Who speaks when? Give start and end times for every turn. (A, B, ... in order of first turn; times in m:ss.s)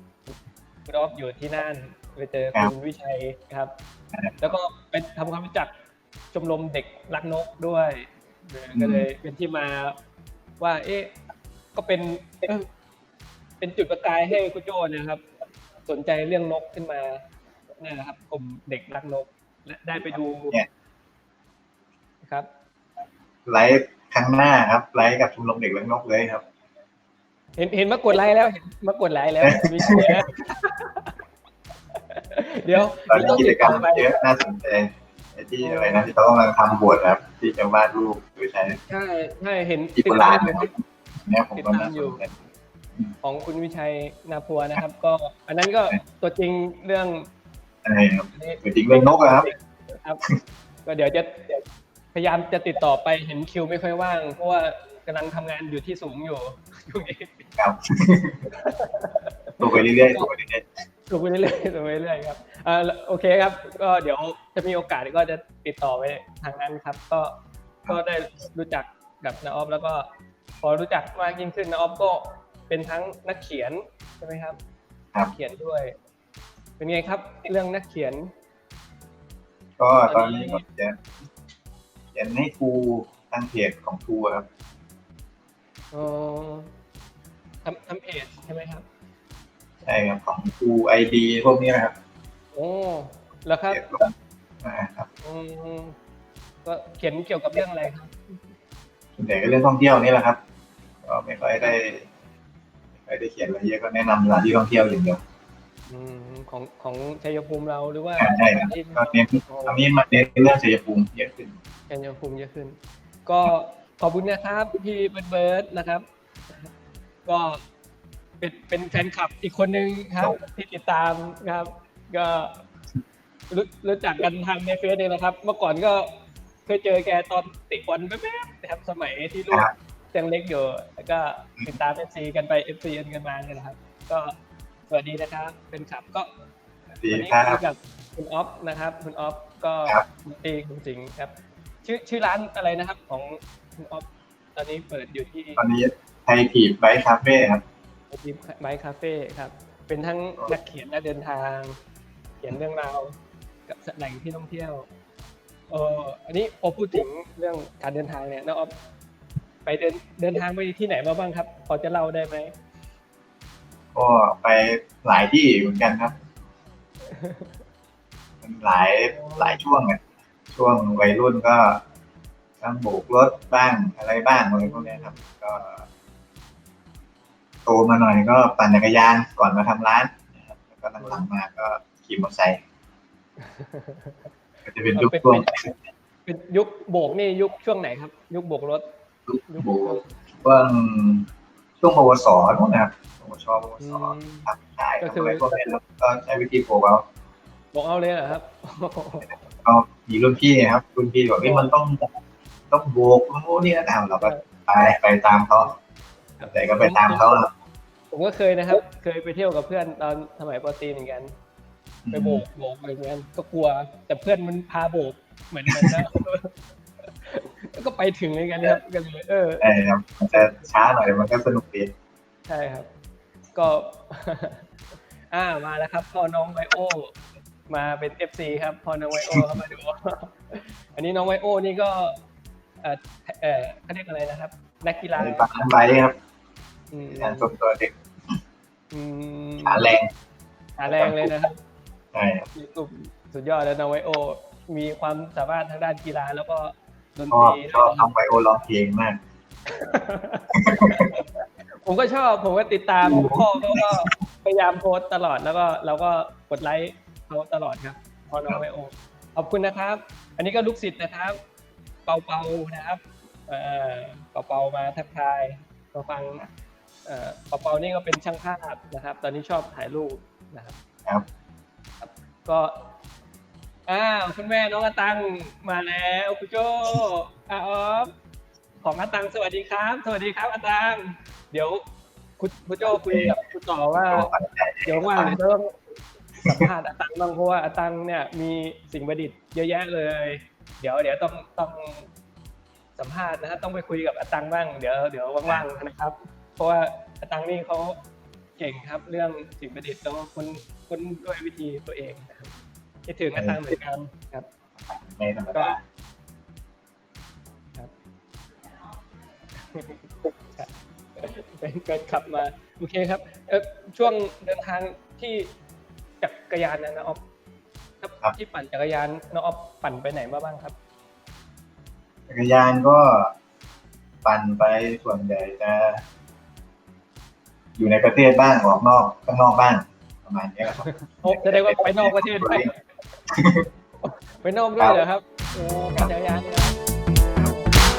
0:00.8-0:03.7 A
0:04.1-0:04.4 B
0:04.4-0:05.7 A
0:06.3-0:09.9 A
0:08.7-0:09.1 B
0:10.6-0:11.1 A
0:11.7-0:12.7 A
0:13.6-0:15.2 A
0:15.9-0:17.2 A
0:17.8-0:20.6 A
0:20.0-0:20.7 B
0:23.4-0:26.4 B
0:27.6-0:31.1 A
0:29.4-0:30.2 B
0:32.0-0:34.1 A
0:32.9-0:38.8 B
0:35.6-0:36.1 A
0:38.8-0:40.7 A
0:40.0-0:42.4 B
0:41.6-0:42.2 A
0:43.2-0:47.3 A
0:47.8-0:49.5 B
0:48.3-0:50.2 A
0:50.8-0:51.6 A
0:52.1-0:57.5 A
0:57.6-0:58.5 B
0:58.5-1:00.3 A
0:59.6-1:00.7 B
1:01.1-1:07.3 A
1:07.9-1:10.1 A
1:10.6-1:14.6 A
1:15.3-1:15.9 A
1:16.8-1:18.3 A
1:19.8-1:21.0 B
1:20.0-1:20.6 A
1:22.1-1:24.5 B
1:25.9-1:26.7 A
1:27.6-1:28.8 A
1:29.8-1:31.9 B
1:32.5-1:33.9 A
1:33.7-1:35.1 B
1:35.2-1:36.0 A
1:36.6-1:38.4 A
1:39.2-1:40.4 B
1:41.0-1:42.0 B
1:41.6-1:41.9 A
1:43.0-1:45.2 B
1:45.9-1:49.9 A
1:48.2-1:51.6 B
1:51.9-1:56.0 A
1:57.2-1:57.6 A
1:58.4-2:02.6 A
2:03.5-2:06.1 A
2:06.7-2:14.3 A
2:14.9-2:16.3 A
2:17.0-2:17.6 B
2:17.1-2:21.3 A
2:21.8-2:25.6 A
2:25.6-2:27.6 B
2:28.1-2:31.8 A
2:32.4-2:33.1 A
2:33.7-2:34.9 A
2:35.7-2:38.7 A
2:39.6-2:42.5 A
2:43.9-2:46.1 B
2:47.0-2:47.6 A
2:48.4-2:50.0 B
2:49.1-2:49.6 A
2:50.5-2:51.8 B
2:52.6-2:55.8 B
2:54.6-2:55.2 A
2:57.6-3:02.6 B
3:01.0-3:01.2 A
3:03.4-3:04.2 A
3:04.6-3:05.7 B
3:04.9-3:05.5 A
3:06.2-3:08.8 A
3:09.3-3:11.3 B
3:09.5-3:10.0 A
3:11.8-3:17.0 B
3:13.8-3:14.5 A
3:15.0-3:15.6 A
3:17.7-3:19.3 A
3:19.6-3:22.1 B
3:21.4-3:21.7 A
3:22.7-3:25.7 B
3:26.4-3:27.2 A
3:26.5-3:27.5 B
3:28.1-3:31.3 A
3:32.0-3:32.4 B
3:32.1-3:36.5 A
3:37.2-3:39.7 A
3:39.6-3:41.9 B
3:42.5-3:42.9 A
3:43.5-3:44.7 A
3:45.3-3:47.1 A
3:47.7-3:52.2 A
3:49.2-3:49.5 B
3:52.8-3:55.5 A
3:55.1-3:56.2 B
3:56.9-3:57.5 A
3:57.2-3:57.9 B
3:58.9-3:59.9 A
3:59.6-4:00.1 B
4:00.8-4:01.6 A
4:00.9-4:01.3 B
4:02.1-4:02.5 B
4:02.5-4:08.1 A
4:07.3-4:09.2 B
4:09.7-4:21.4 A
4:10.5-4:11.1 B
4:13.0-4:14.2 B
4:22.0-4:26.4 A
4:27.0-4:30.8 A
4:32.0-4:32.9 A
4:33.9-4:38.1 A
4:38.8-4:41.8 A
4:42.4-4:44.3 A
4:42.8-4:43.4 B
4:44.0-4:45.4 B
4:44.8-4:45.7 A
4:46.4-4:52.1 A
4:53.0-4:58.0 A
4:58.6-5:02.5 A
5:03.0-5:04.5 A
5:03.3-5:03.6 B
5:04.8-5:05.8 B
5:09.7-5:15.5 A
5:16.2-5:17.2 A
5:18.0-5:20.8 A
5:22.3-5:23.3 B
5:24.2-5:26.0 B
5:27.8-5:32.7 B
5:30.7-5:32.7 A
5:33.3-5:33.6 B
5:34.0-5:36.7 A